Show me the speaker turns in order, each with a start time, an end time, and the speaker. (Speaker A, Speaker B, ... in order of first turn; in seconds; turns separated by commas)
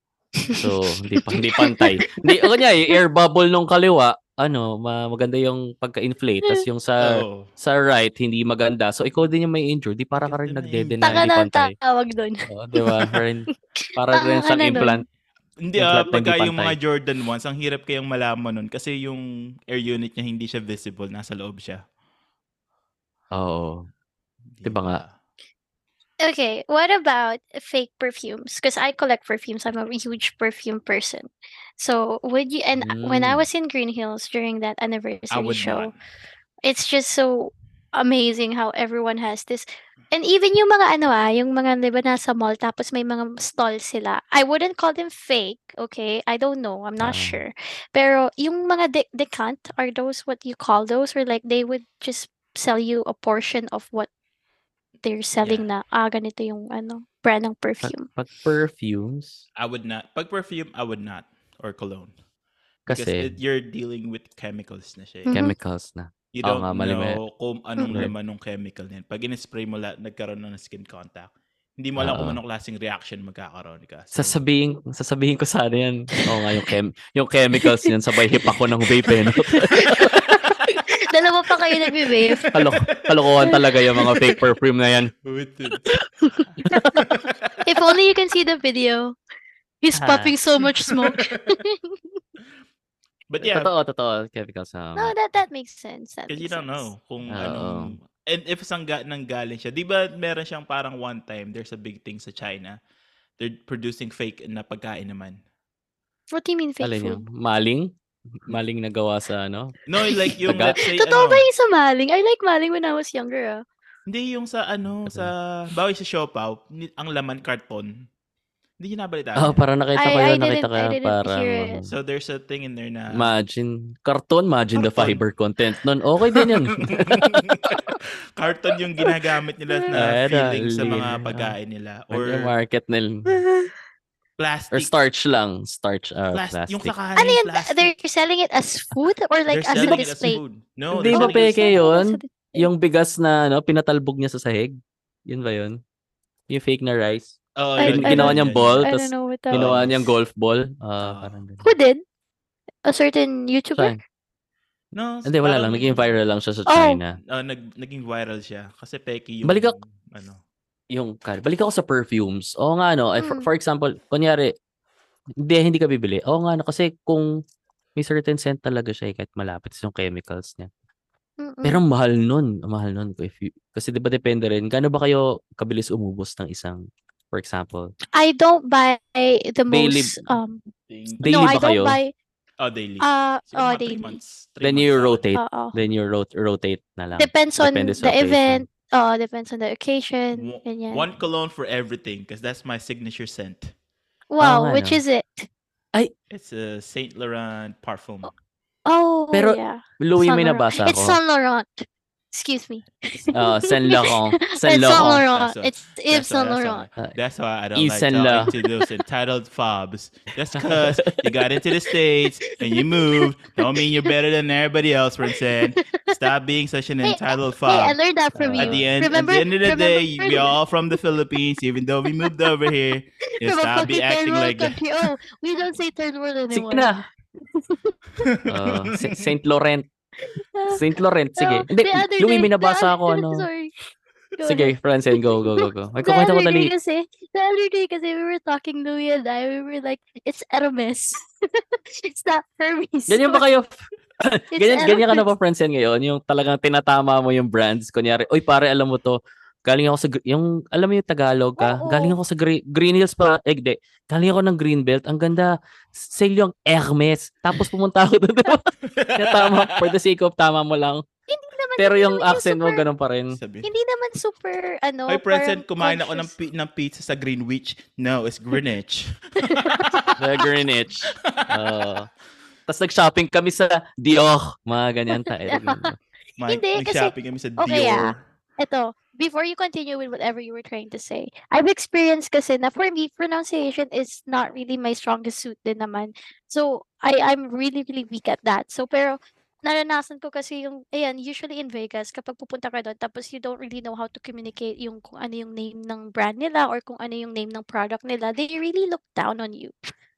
Speaker A: 0.4-3.0, Speaker B: 0.6-11.7, Speaker C: 7.0-7.5, Speaker C: 10.2-11.3, Speaker A: 11.0-12.9, Speaker B: 12.5-15.0, Speaker A: 13.7-15.0, Speaker C: 14.6-14.9, Speaker C: 15.6-21.8, Speaker B: 15.8-16.8, Speaker B: 23.3-23.9, Speaker C: 24.5-25.1, Speaker B: 24.6-25.0, Speaker A: 26.2-35.9, Speaker B: 32.8-33.5, Speaker C: 35.3-36.0, Speaker A: 36.6-54.1, Speaker B: 47.0-47.4, Speaker A: 55.0-58.1, Speaker C: 55.4-55.7, Speaker B: 57.8-59.4, Speaker C: 59.5-62.1, Speaker B: 62.9-63.3, Speaker C: 62.9-65.4, Speaker A: 65.3-65.5, Speaker B: 65.3-67.2, Speaker C: 66.3-74.4, Speaker B: 72.0-72.4, Speaker B: 74.1-80.1, Speaker A: 77.6-77.9, Speaker A: 79.1-82.5, Speaker C: 80.0-80.7, Speaker C: 81.9-83.5, Speaker B: 82.5-85.1, Speaker A: 83.4-84.1, Speaker C: 85.2-86.0, Speaker A: 86.2-86.9, Speaker C: 86.5-87.6, Speaker B: 86.7-87.0, Speaker A: 87.6-89.2, Speaker A: 89.8-92.2, Speaker B: 89.9-90.3, Speaker C: 90.7-91.5, Speaker C: 93.3-93.7, Speaker B: 93.4-95.1, Speaker A: 95.0-96.9, Speaker C: 96.3-102.8, Speaker B: 97.3-98.0, Speaker C: 103.4-105.4, Speaker A: 106.3-107.2, Speaker B: 106.8-109.8, Speaker C: 109.9-111.5, Speaker A: 110.2-113.6, Speaker B: 110.4-110.8, Speaker C: 114.1-118.1, Speaker B: 115.0-115.3, Speaker C: 118.8-119.6, Speaker B: 119.4-121.9, Speaker A: 120.0-121.8, Speaker C: 121.9-123.3, Speaker B: 123.1-127.1, Speaker C: 124.8-125.2, Speaker C: 126.3-132.5, Speaker A: 129.7-130.1, Speaker B: 129.9-131.5, Speaker B: 132.1-133.3, Speaker C: 134.4-134.9, Speaker B: 134.7-136.9, Speaker C: 136.3-137.9, Speaker A: 137.2-140.4, Speaker C: 139.5-141.8, Speaker B: 139.7-140.3, Speaker B: 140.9-145.8, Speaker A: 141.1-142.7, Speaker B: 146.5-151.7, Speaker C: 147.6-148.9, Speaker A: 147.8-149.8, Speaker C: 149.5-150.2, Speaker C: 151.0-151.4, Speaker A: 151.6-152.0, Speaker A: 152.8-154.0, Speaker C: 154.9-156.2, Speaker B: 155.2-157.1, Speaker A: 156.7-157.0, Speaker C: 157.3-160.4, Speaker B: 159.4-159.7, Speaker B: 160.9-164.5, Speaker A: 163.2-163.5, Speaker B: 165.4-167.3, Speaker B: 167.9-170.7, Speaker A: 171.4-171.8, Speaker B: 171.6-177.9, Speaker A: 178.1-180.6, Speaker B: 179.7-180.3, Speaker C: 180.9-181.5, Speaker B: 181.2-182.0, Speaker A: 181.2-182.1, Speaker C: 182.6-185.2, Speaker A: 183.0-184.2, Speaker B: 184.6-188.7, Speaker A: 185.3-185.7, Speaker A: 187.2-191.1, Speaker C: 190.3-193.7, Speaker A: 194.3-195.5, Speaker B: 194.4-195.0, Speaker C: 196.3-198.3, Speaker A: 198.8-206.9, Speaker B: 199.3-201.2, Speaker B: 203.3-205.2, Speaker C: 204.9-218.0, Speaker B: 207.8-208.5, Speaker B: 210.6-211.2, Speaker A: 212.5-214.1, Speaker A: 215.3-216.2, Speaker A: 217.0-220.6, Speaker B: 218.3-218.8, Speaker C: 218.5-224.8, Speaker A: 222.2-222.7, Speaker A: 223.4-226.9, Speaker B: 226.5-227.1, Speaker A: 227.5-228.3, Speaker C: 228.2-229.2, Speaker B: 228.5-229.8, Speaker A: 230.2-230.8, Speaker B: 230.7-233.5, Speaker A: 231.4-233.7, Speaker A: 234.4-243.4, Speaker B: 234.4-236.7, Speaker B: 243.1-261.0, Speaker A: 244.5-245.3, Speaker A: 251.6-252.2, Speaker C: 258.8-259.9, Speaker A: 261.3-262.8, Speaker B: 261.8-263.4, Speaker C: 263.3-263.7, Speaker A: 263.6-266.3, Speaker C: 265.1-270.1, Speaker A: 269.4-270.1, Speaker B: 270.2-272.1, Speaker C: 271.2-271.5, Speaker B: 272.7-275.9, Speaker A: 275.1-275.9, Speaker C: 276.4-278.2, Speaker A: 276.5-299.7